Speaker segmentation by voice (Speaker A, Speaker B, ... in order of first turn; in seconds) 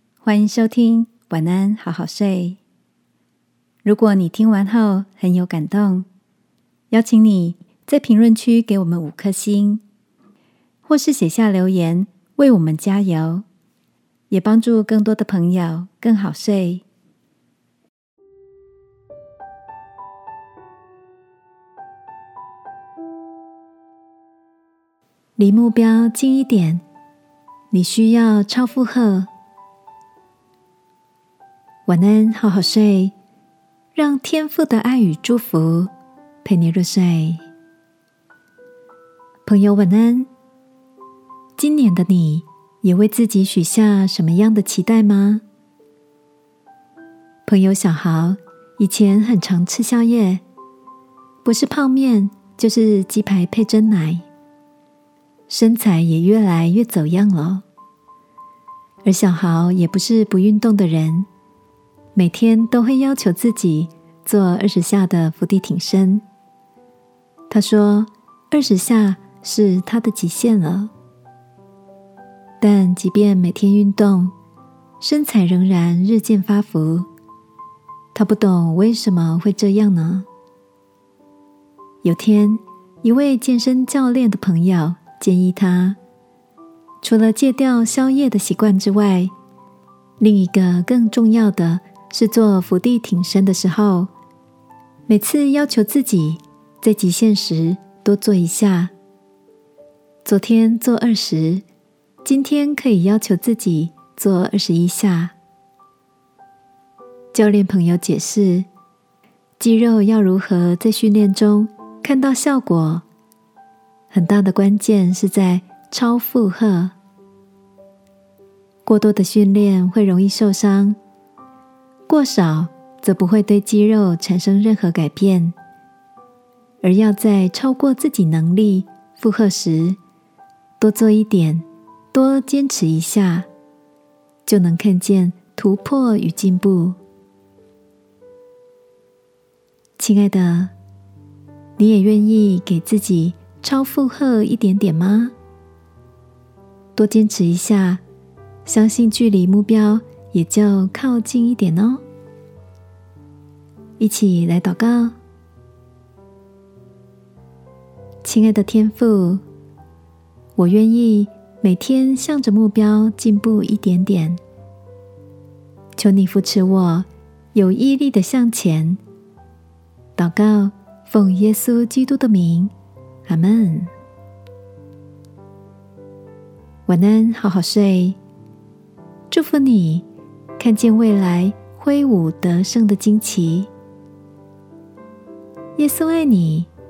Speaker A: 0.2-2.6, 3.8-6.1, 6.9-9.8, 10.8-13.4, 14.3-16.8, 25.4-26.8, 27.7-29.3, 31.9-33.1, 33.9-35.9, 36.4-37.4, 39.4-40.3, 41.6-45.4, 47.5-50.4, 51.4-54.2, 55.5-57.6, 59.0-61.3, 62.1-66.2, 67.5-70.9, 72.6-74.3, 75.0-77.1, 78.1-80.3, 82.0-86.0, 87.0-89.3, 90.2-94.1, 95.1-98.9, 100.2-101.6, 102.2-105.3, 107.3-108.7, 109.6-113.0, 114.1-116.9, 118.8-121.0, 122.1-125.5, 126.8-130.0, 130.8-133.5, 134.4-137.0, 140.0-140.7, 141.8-145.3, 146.9-148.0, 148.6-152.0, 154.0-155.2, 158.2-159.4, 160.6-164.4, 165.9-169.0, 170.2-172.7, 173.2-173.9, 176.9-178.2, 179.3-180.0, 180.6-183.7, 185.8-186.7